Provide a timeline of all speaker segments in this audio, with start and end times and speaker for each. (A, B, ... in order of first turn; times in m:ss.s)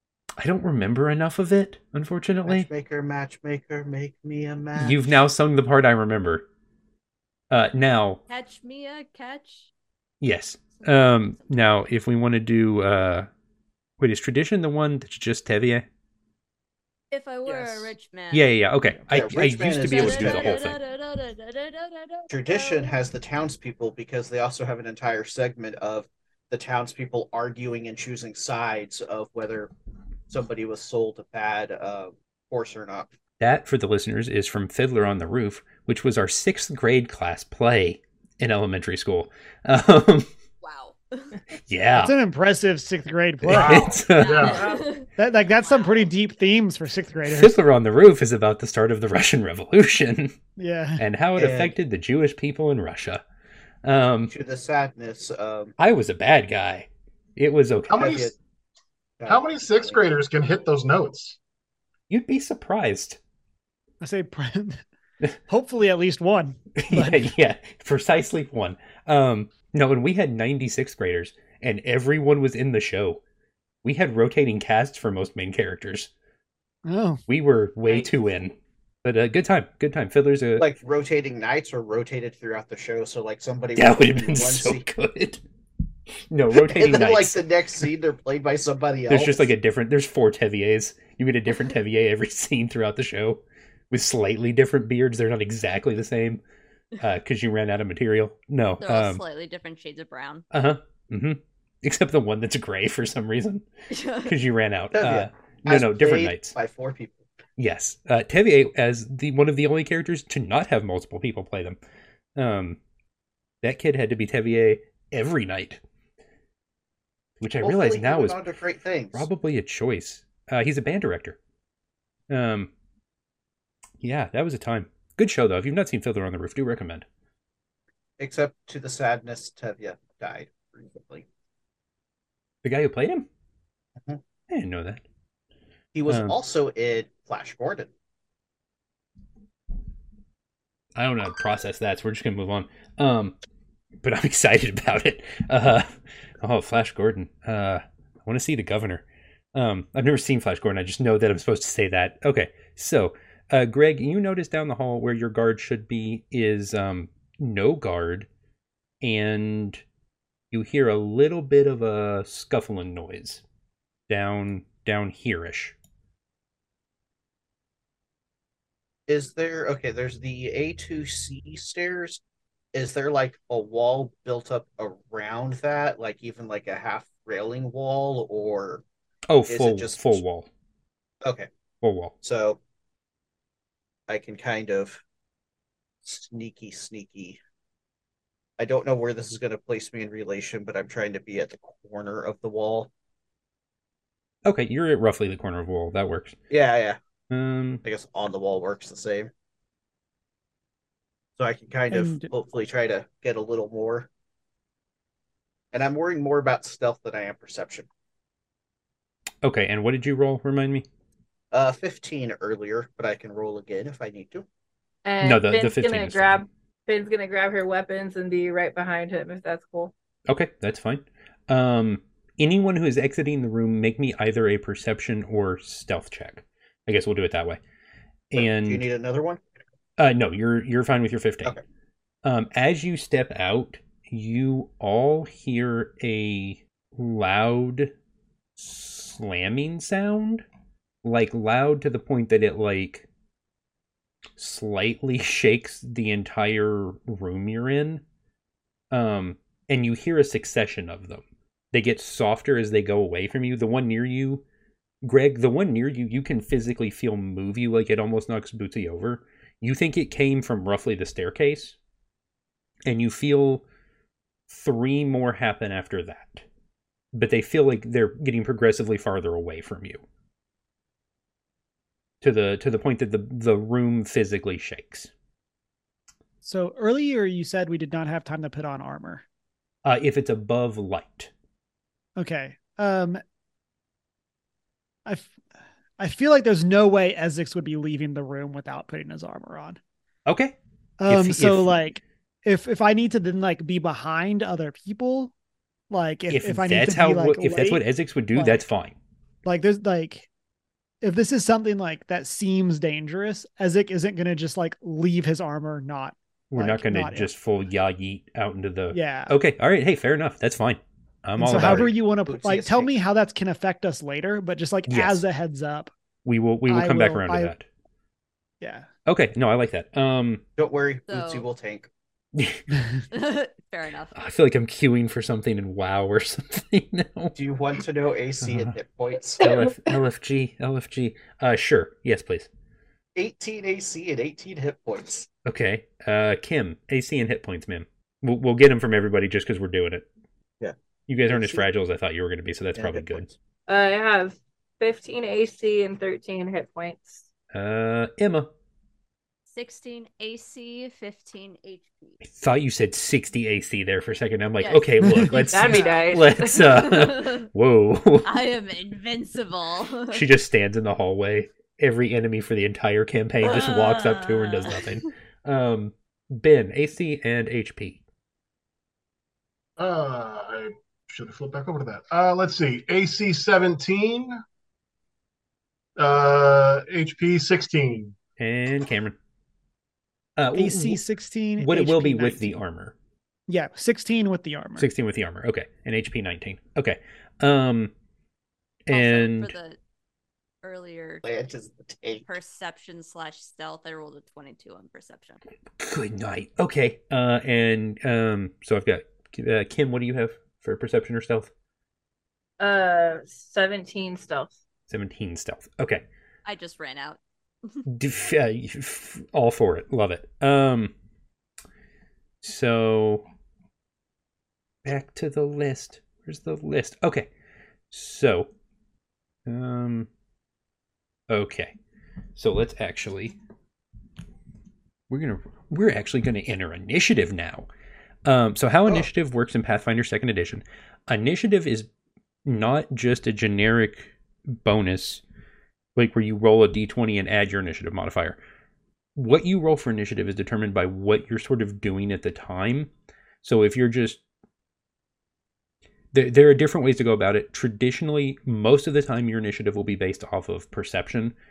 0:00.4-0:02.7 A
0:02.4-0:05.2 B
0:04.8-0:06.4 A
0:07.5-0:08.2 A
0:08.3-0:09.7 C
0:10.2-0:13.3 A
0:10.8-0:11.6 C
0:14.0-0:15.8 A
0:17.1-0:18.5 C
0:17.4-0:17.9 B
0:18.3-0:20.7 A
0:19.1-0:20.7 B
0:19.8-0:23.0 C
0:22.3-0:29.7 B
0:30.3-0:33.1 B
0:33.4-0:40.3 A
0:40.6-0:41.4 C
0:41.7-0:42.1 A
0:42.0-0:43.9 D
0:43.4-0:44.6 A
0:43.5-0:44.6 E
0:44.1-0:46.1 C
0:44.5-0:44.9 F
0:45.2-0:47.5 D
0:47.2-0:50.3 A
0:50.6-0:51.0 D
0:51.0-0:53.2 A
0:51.4-0:51.7 B
0:53.8-0:54.3 A
0:54.3-0:55.7 B
0:55.8-0:58.2 A
0:57.9-0:58.3 E
0:57.9-0:58.3 B
0:59.2-1:00.1 B
0:59.3-1:01.4 E
1:02.1-1:03.2 A
1:04.0-1:04.8 D
1:05.5-1:07.3 D
1:06.8-1:13.2 A
1:13.8-1:16.1 A
1:16.8-1:17.2 D
1:17.3-1:20.7 A
1:20.6-1:24.8 B
1:23.8-1:25.4 A
1:26.3-1:27.4 A
1:26.5-1:29.5 B
1:29.1-1:36.4 A
1:37.0-1:39.2 A
1:38.8-1:40.4 C
1:40.5-1:43.7 A
1:43.9-1:44.3 C
1:44.2-1:46.5 A
1:44.9-1:47.2 B
1:47.6-1:51.8 A
1:52.4-1:52.8 A
1:53.6-1:55.8 A
1:57.4-1:58.4 A
1:57.6-1:59.3 B
1:59.1-2:01.4 A
2:02.3-2:02.7 A
2:04.0-2:07.0 A
2:08.2-2:11.3 B
2:12.6-2:13.3 A
2:14.5-2:15.0 A
2:15.9-2:17.9 B
2:16.1-2:16.4 A
2:20.9-2:23.3 A
2:24.0-2:25.9 A
2:26.4-2:38.3 A
2:39.0-2:39.8 A
2:40.5-2:43.4 A
2:44.1-2:45.8 A
2:49.1-2:52.2 B
2:52.7-2:58.8 B
2:59.3-3:00.5 A
2:59.5-3:00.2 B
3:01.2-3:01.5 B
3:01.8-3:02.1 A
3:02.2-3:02.6 B
3:04.1-3:05.0 B
3:06.0-3:07.4 B
3:08.6-3:12.9 B
3:14.4-3:16.4 A
3:16.5-3:17.0 B
3:17.3-3:17.8 A
3:17.8-3:19.3 B
3:21.4-3:24.1 B
3:21.9-3:22.3 D
3:25.7-3:27.9 B
3:29.4-3:30.8 A
3:31.5-3:34.4 B
3:35.0-3:39.9 F
3:35.2-3:36.4 A
3:40.3-3:47.6 A
3:48.3-3:48.8 A
3:48.3-3:49.4 B
3:50.0-3:51.5 A
3:52.2-3:57.9 A
3:58.6-4:00.4 A
4:01.0-4:03.0 A
4:04.4-4:08.0 A
4:08.9-4:14.4 A
4:15.0-4:21.8 A
4:22.8-4:23.6 A
4:24.5-4:26.4 A
4:27.1-4:30.0 A
4:32.2-4:35.1 A
4:36.4-4:39.2 D
4:39.8-4:41.3 A
4:42.2-4:43.2 D
4:45.0-4:45.4 D
4:46.0-4:49.8 D
4:50.2-4:50.5 A
4:51.0-4:55.3 D
4:51.1-4:51.7 A
4:55.9-4:57.8 D
4:56.3-4:58.9 A
4:58.3-4:58.6 D
4:59.4-5:00.3 D
5:01.0-5:07.3 D
5:06.5-5:11.9 A
5:08.9-5:09.4 D
5:11.4-5:15.9 D
5:11.5-5:12.9 B
5:14.9-5:15.2 A
5:16.2-5:17.6 A
5:16.7-5:17.5 D
5:18.6-5:18.9 D
5:19.0-5:20.4 A
5:20.6-5:21.9 B
5:21.1-5:21.4 C
5:22.3-5:22.6 A
5:23.1-5:24.1 C
5:24.1-5:27.4 A
5:27.3-5:29.4 B
5:28.4-5:28.7 A
5:29.4-5:32.5 A
5:33.1-5:35.3 B
5:35.4-5:40.0 A
5:41.1-5:43.3 A
5:41.3-5:41.7 B
5:42.7-5:43.3 B
5:43.7-5:47.2 F
5:47.5-5:48.5 A
5:49.5-5:52.1 C
5:52.2-5:58.4 A
5:54.6-5:57.5 C
5:55.1-5:55.4 D
5:55.5-5:56.7 F
5:58.2-6:00.3 C
6:00.1-6:08.0 A
6:03.4-6:05.1 C
6:09.8-6:14.4 E
6:16.0-6:18.1 E
6:18.4-6:19.2 A
6:20.4-6:21.0 A
6:20.5-6:22.6 D
6:21.6-6:22.9 A
6:23.5-6:24.9 D
6:24.8-6:27.9 A
6:28.8-6:29.5 A
6:28.9-6:29.8 C
6:30.6-6:31.2 C
6:31.2-6:32.3 B
6:32.2-6:35.4 C
6:35.8-6:41.5 A
6:42.6-6:44.6 F
6:44.9-6:46.0 A
6:46.4-6:47.8 C
6:47.9-6:50.9 A
6:52.4-6:53.2 A
6:54.8-6:57.3 A
6:57.9-6:58.5 A
6:59.4-7:00.1 A
7:01.3-7:01.7 A
7:02.4-7:03.4 A
7:05.1-7:07.7 A
7:08.2-7:11.9 A
7:12.4-7:15.2 A
7:16.0-7:18.4 A
7:19.2-7:22.9 A
7:23.4-7:24.2 A
7:26.1-7:31.3 A